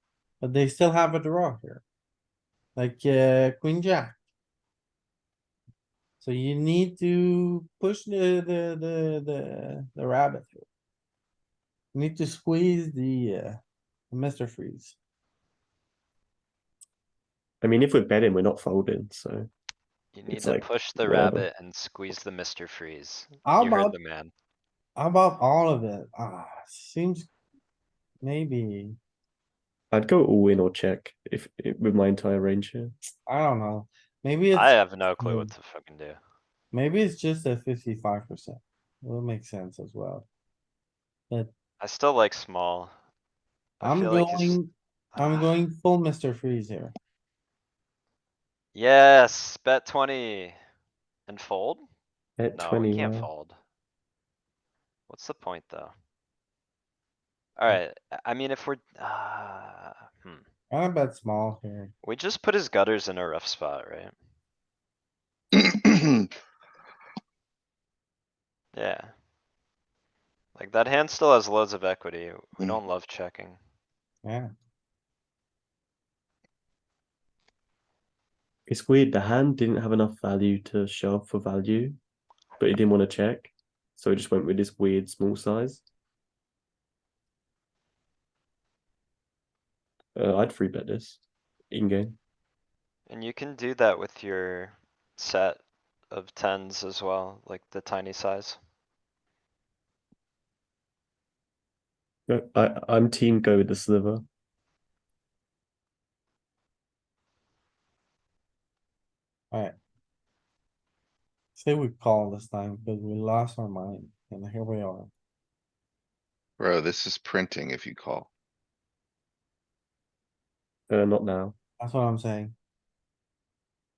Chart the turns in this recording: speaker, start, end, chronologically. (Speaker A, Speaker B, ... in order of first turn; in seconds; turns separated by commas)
Speaker A: 0.4-1.8, Speaker A: 2.8-4.2, Speaker A: 6.2-10.6, Speaker A: 11.9-13.6, Speaker A: 14.1-14.9, Speaker B: 17.6-19.5, Speaker C: 20.1-24.3, Speaker B: 20.3-21.5, Speaker A: 23.4-23.9, Speaker A: 24.9-27.3, Speaker A: 28.2-29.0, Speaker B: 29.9-32.9, Speaker A: 33.3-35.5, Speaker C: 34.5-36.2, Speaker A: 36.7-40.2, Speaker C: 41.8-42.9, Speaker C: 43.8-44.6, Speaker A: 43.8-46.9, Speaker C: 45.1-45.5, Speaker C: 48.7-50.6, Speaker C: 51.3-51.8, Speaker B: 52.4-53.3, Speaker C: 52.5-53.6, Speaker C: 55.1-55.9, Speaker C: 57.6-60.4, Speaker A: 60.7-61.9, Speaker C: 62.0-64.1, Speaker D: 65.5-66.2, Speaker C: 68.7-69.1, Speaker C: 70.5-73.6, Speaker A: 74.2-74.5, Speaker B: 78.7-82.0, Speaker B: 82.6-85.8, Speaker B: 90.1-92.2, Speaker C: 93.1-98.6, Speaker B: 102.3-104.2, Speaker A: 111.5-115.1, Speaker D: 116.6-118.3, Speaker B: 120.9-121.5, Speaker A: 121.8-122.5